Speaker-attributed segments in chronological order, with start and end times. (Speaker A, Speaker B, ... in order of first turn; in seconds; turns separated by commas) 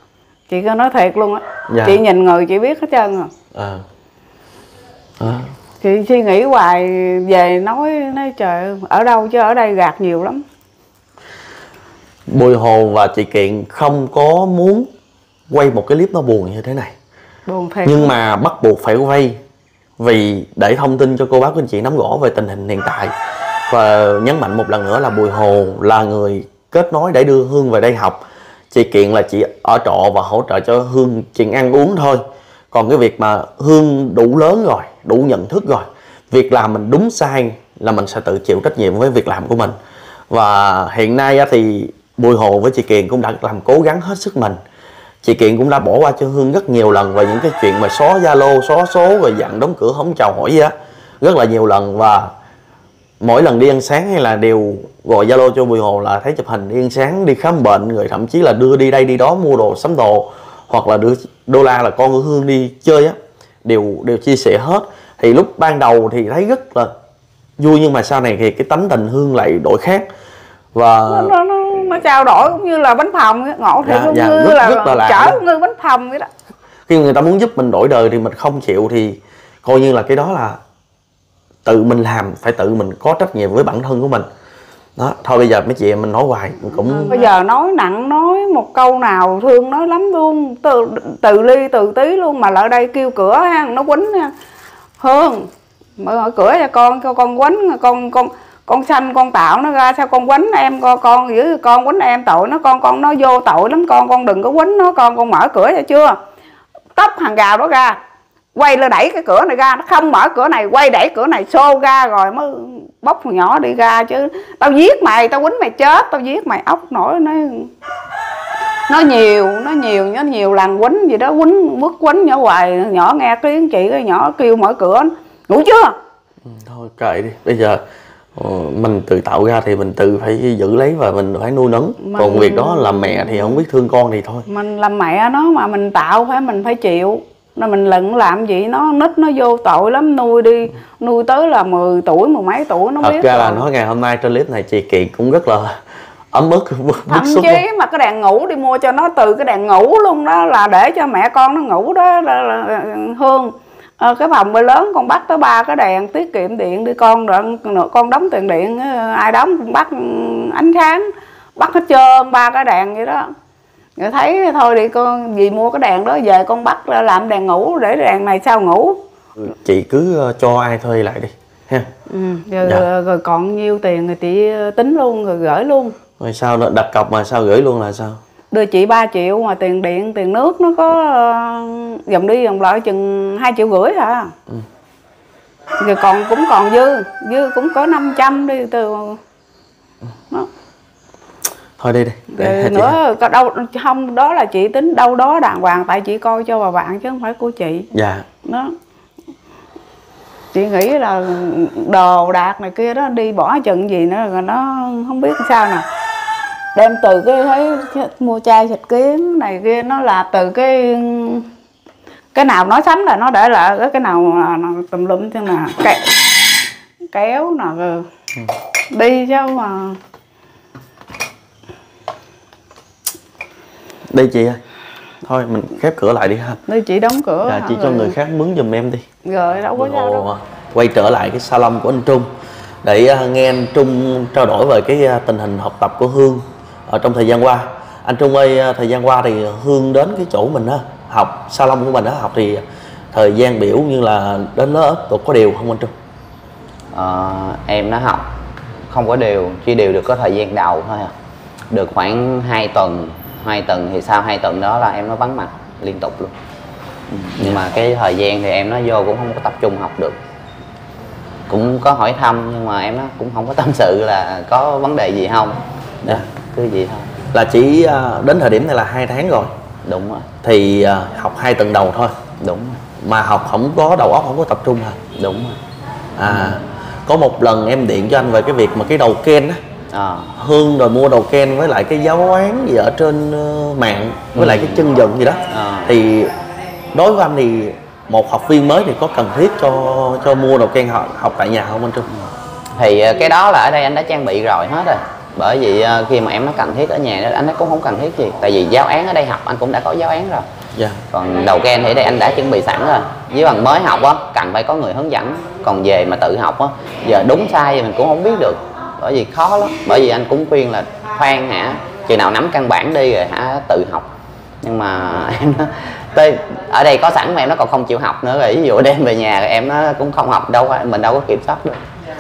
Speaker A: 0.5-3.3, Speaker B: 1.7-2.0, Speaker B: 3.5-3.9, Speaker B: 5.2-5.5, Speaker A: 5.8-10.4, Speaker B: 12.3-14.9, Speaker B: 15.5-16.9, Speaker A: 17.5-18.1, Speaker B: 17.9-19.4, Speaker B: 20.0-23.1, Speaker B: 23.7-39.8, Speaker B: 40.3-44.6, Speaker B: 45.2-52.3, Speaker B: 53.2-66.9, Speaker B: 67.6-70.0, Speaker B: 70.7-71.3, Speaker A: 71.1-76.3, Speaker B: 73.8-75.4, Speaker B: 76.9-80.6, Speaker B: 81.7-84.3, Speaker B: 85.0-87.3, Speaker A: 86.9-94.3, Speaker A: 95.0-106.2, Speaker A: 107.0-108.0, Speaker A: 108.5-117.7, Speaker A: 118.9-126.0, Speaker B: 126.5-127.8, Speaker B: 128.4-134.5, Speaker A: 132.0-133.6, Speaker A: 134.5-143.7, Speaker B: 143.0-147.6, Speaker A: 147.1-163.3, Speaker A: 164.0-169.0, Speaker B: 169.4-171.9, Speaker A: 172.1-175.9, Speaker B: 176.2-178.2, Speaker A: 178.5-184.3, Speaker A: 185.8-189.2, Speaker B: 191.8-193.0, Speaker A: 192.3-197.9, Speaker B: 197.9-198.3, Speaker A: 198.4-198.7, Speaker A: 200.5-205.8, Speaker A: 206.8-211.5, Speaker A: 212.3-216.2, Speaker A: 217.1-218.1, Speaker A: 218.9-220.0, Speaker B: 224.1-224.6, Speaker B: 225.2-226.6, Speaker A: 226.7-228.2, Speaker B: 227.4-229.1, Speaker A: 229.2-230.3, Speaker B: 229.7-232.3, Speaker B: 232.8-245.9, Speaker C: 246.9-248.3, Speaker C: 248.9-251.1, Speaker C: 251.7-256.4, Speaker C: 257.1-260.2, Speaker C: 261.5-267.1, Speaker B: 267.3-269.5, Speaker C: 269.9-270.3, Speaker B: 270.4-272.2, Speaker C: 272.4-272.8, Speaker B: 273.0-275.0, Speaker C: 275.1-275.6, Speaker B: 276.2-279.6, Speaker C: 276.2-276.6, Speaker C: 279.9-280.3, Speaker B: 280.4-286.4, Speaker C: 284.4-284.9, Speaker C: 285.5-285.9, Speaker B: 286.9-292.1, Speaker C: 292.8-300.5, Speaker B: 300.7-301.0, Speaker C: 301.1-314.1, Speaker C: 314.6-321.8